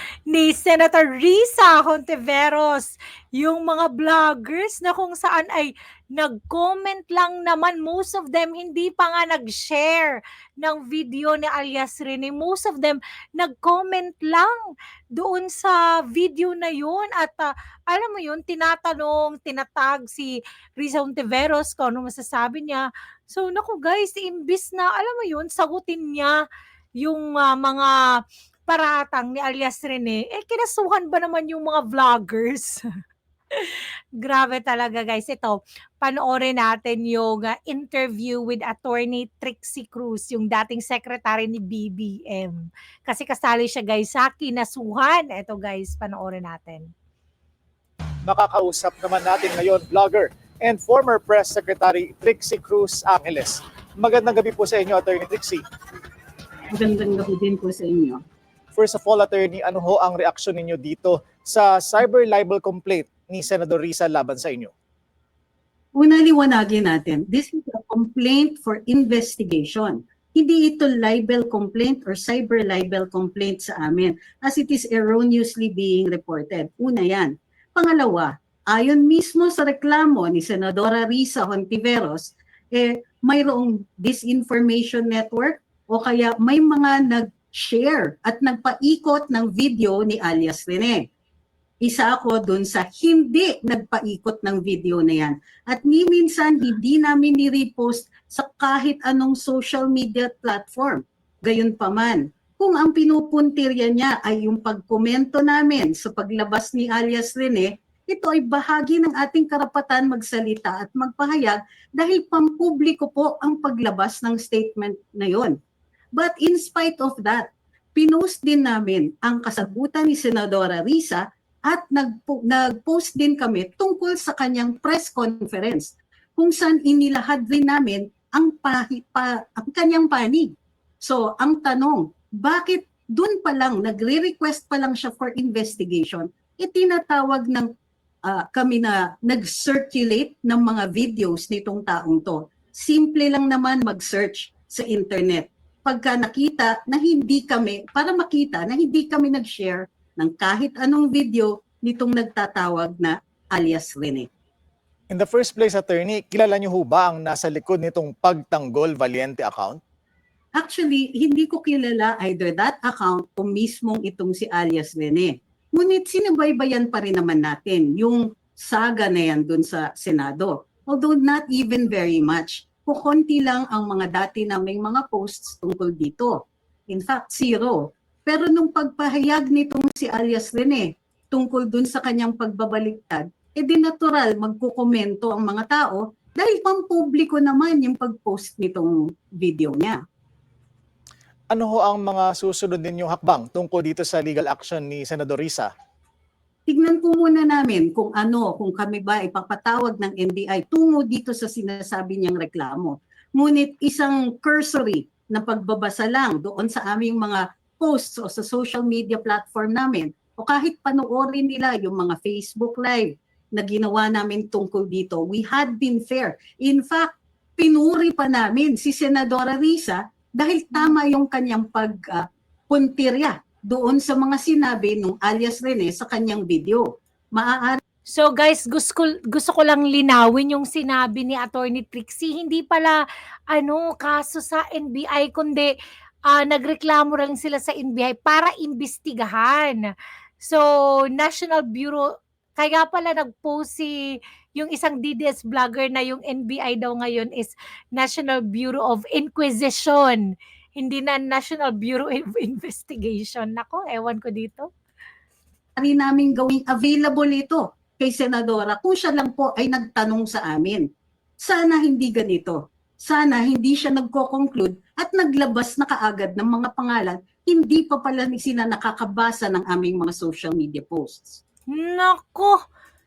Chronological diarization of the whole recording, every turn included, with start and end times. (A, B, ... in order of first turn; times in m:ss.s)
0:00.3-0:14.6 A
0:15.1-0:26.4 A
0:27.0-0:28.0 A
0:28.7-0:32.8 A
0:33.6-0:46.9 A
0:48.2-0:55.6 B
0:56.7-0:58.2 C
0:58.8-1:04.7 B
1:06.0-1:31.0 C
1:31.8-1:55.5 C
1:56.2-2:10.5 C
2:11.0-2:17.7 C
2:18.3-2:34.3 C
2:35.1-2:39.8 B
2:40.6-2:56.4 C
2:56.9-3:10.0 C
3:11.5-3:15.7 B
3:16.7-3:46.8 C
3:47.4-3:47.8 C
3:48.1-3:55.7 A
3:56.3-3:59.8 A
4:00.4-4:14.7 A
4:15.8-4:20.8 C
4:21.4-4:31.4 C
4:31.7-4:32.6 A